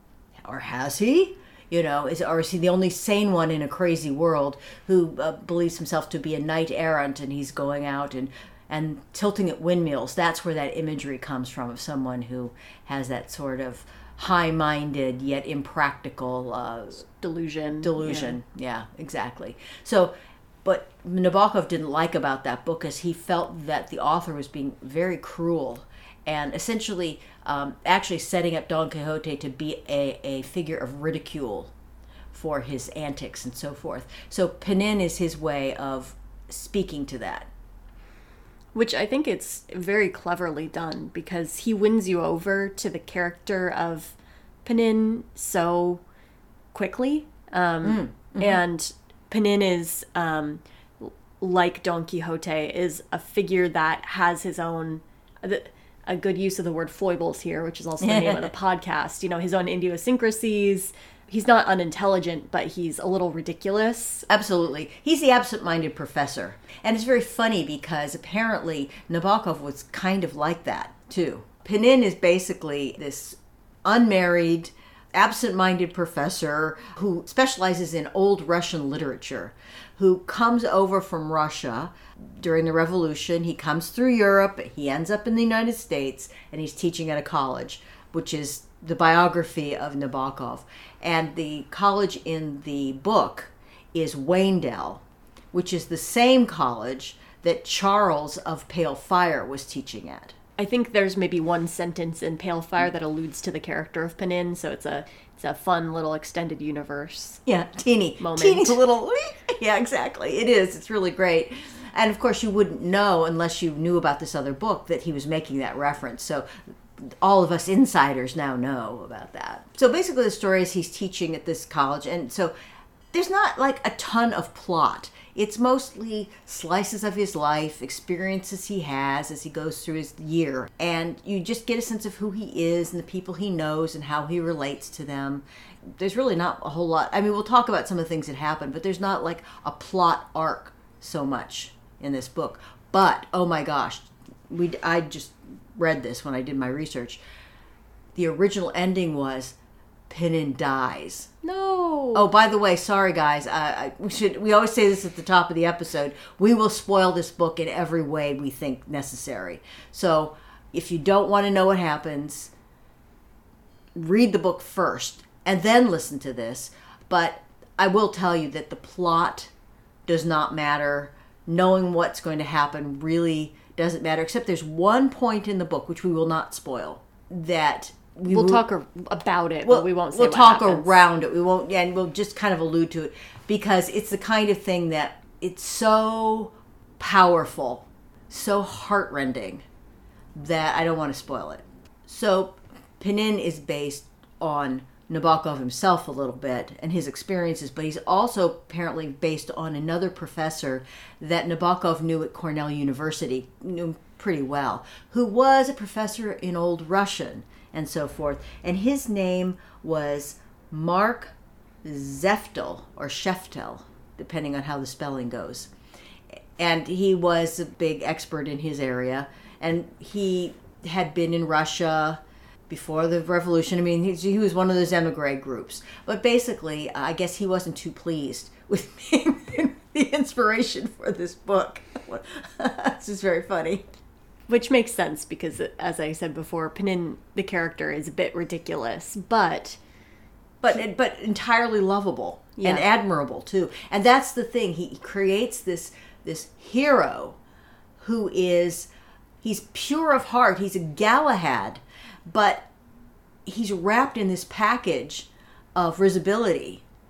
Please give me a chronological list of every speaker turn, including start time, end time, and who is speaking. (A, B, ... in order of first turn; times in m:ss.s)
0:00.4-0:17.0 A
0:17.0-0:18.4 B
0:17.8-0:31.7 A
0:32.3-0:37.5 A
0:38.7-0:46.0 B
0:46.7-1:04.3 B
0:47.8-0:48.6 A
0:58.0-0:58.4 A
1:04.3-1:40.4 A
1:40.6-1:47.4 B
1:47.4-2:02.5 A
1:48.2-1:48.8 B
2:03.1-2:27.2 A
2:28.1-2:29.6 A
2:30.1-2:31.3 A
2:31.4-2:32.3 B
2:32.1-2:42.5 A
2:43.9-2:49.5 A
2:50.0-2:58.6 A
2:58.3-3:01.0 B
2:59.6-3:09.6 A
3:10.4-3:35.7 A
3:36.6-3:53.8 A
3:54.5-3:59.8 B
4:00.6-4:07.4 A
4:02.6-4:02.8 B
4:08.0-4:08.9 A
4:09.4-4:12.7 A
4:13.4-4:16.8 A